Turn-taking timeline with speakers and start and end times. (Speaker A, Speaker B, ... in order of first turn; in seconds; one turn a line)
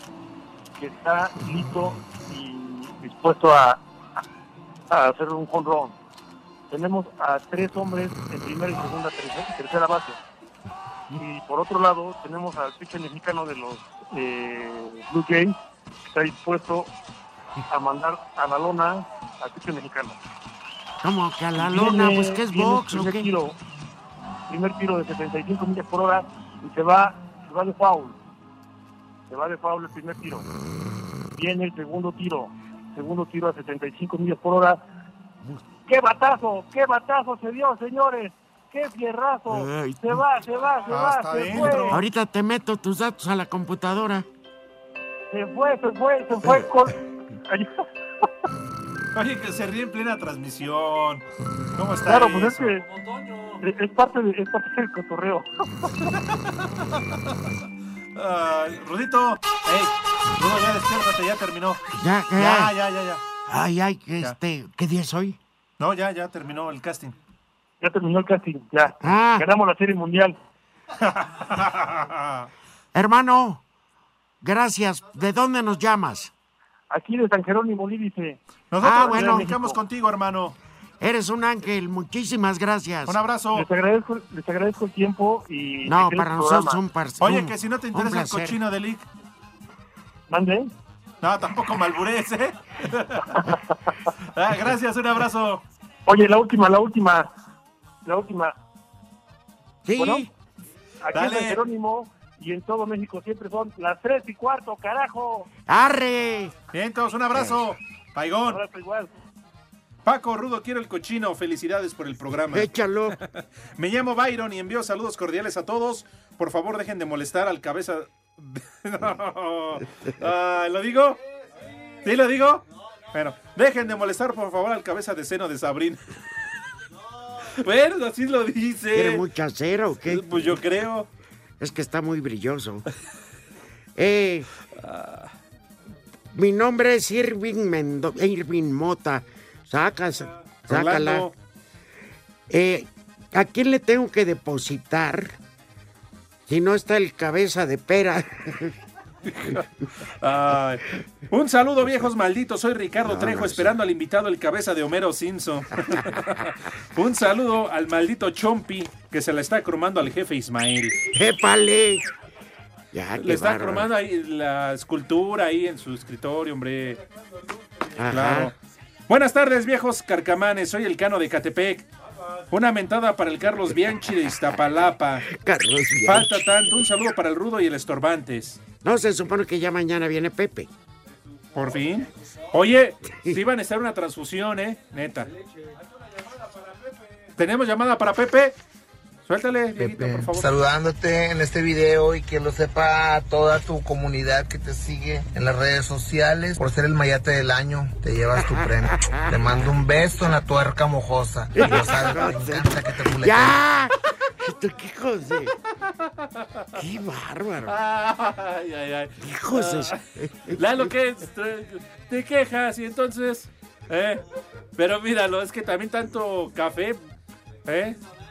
Speaker A: 0.8-3.8
Speaker A: 4.9-6.0
Speaker A: 6.7-10.2
Speaker A: 11.2-15.6
Speaker A: 16.1-16.9
Speaker A: 17.7-20.2
Speaker B: 21.0-23.3
Speaker A: 21.6-23.6
Speaker A: 24.5-28.2
Speaker A: 29.3-30.4
Speaker A: 31.3-34.8
Speaker A: 35.9-42.0
Speaker B: 39.5-40.2
Speaker C: 40.9-42.0
Speaker B: 41.7-44.2
Speaker A: 45.3-47.8
Speaker C: 49.1-51.2
Speaker C: 51.8-52.8
Speaker A: 52.0-52.8
Speaker A: 53.6-55.5
Speaker C: 58.1-61.8
Speaker B: 61.9-62.7
Speaker C: 62.4-63.2
Speaker B: 63.5-65.4
Speaker C: 65.8-67.1
Speaker A: 67.8-70.4
Speaker B: 69.0-69.5
Speaker C: 71.0-72.5
Speaker B: 72.9-73.6
Speaker B: 74.4-76.3
Speaker A: 76.9-79.8
Speaker C: 78.7-80.6
Speaker B: 78.8-79.5
Speaker B: 81.0-83.2
Speaker C: 83.0-83.7
Speaker A: 83.5-86.8
Speaker B: 85.8-88.6
Speaker C: 87.2-89.0
Speaker A: 90.3-90.7
Speaker C: 91.2-93.4
Speaker C: 94.3-95.6
Speaker A: 96.0-97.3
Speaker A: 98.0-98.5
Speaker B: 99.8-100.3
Speaker A: 100.0-100.2
Speaker A: 101.0-105.5
Speaker C: 101.1-101.6
Speaker B: 105.7-106.5
Speaker C: 106.7-108.6
Speaker B: 107.3-107.6
Speaker A: 108.4-109.1
Speaker C: 110.0-112.7
Speaker B: 112.5-113.2
Speaker C: 113.8-121.2
Speaker C: 122.0-126.0
Speaker C: 127.6-129.2
Speaker B: 128.9-130.4
Speaker C: 130.1-131.1
Speaker B: 131.6-132.8
Speaker B: 133.9-134.5
Speaker C: 134.9-135.2
Speaker B: 136.3-141.3
Speaker C: 140.7-141.3
Speaker B: 142.5-145.3
Speaker B: 146.5-148.7
Speaker C: 149.4-149.6
Speaker C: 150.2-161.0
Speaker B: 153.0-153.7
Speaker B: 161.1-162.0
Speaker B: 162.9-163.9
Speaker C: 163.2-167.0
Speaker B: 168.0-168.5
Speaker C: 168.1-168.5
Speaker C: 169.1-171.9
Speaker C: 172.5-175.3
Speaker B: 175.3-176.7
Speaker C: 176.0-178.6
Speaker B: 178.8-180.7
Speaker C: 181.5-185.3
Speaker C: 187.4-188.6
Speaker C: 189.2-190.5
Speaker D: 189.8-203.6
Speaker B: 198.3-199.6
Speaker B: 201.5-205.5
Speaker B: 206.7-207.8
Speaker C: 207.7-210.0
Speaker B: 209.2-210.9
Speaker C: 210.5-214.2
Speaker C: 214.8-217.0
Speaker C: 217.7-218.0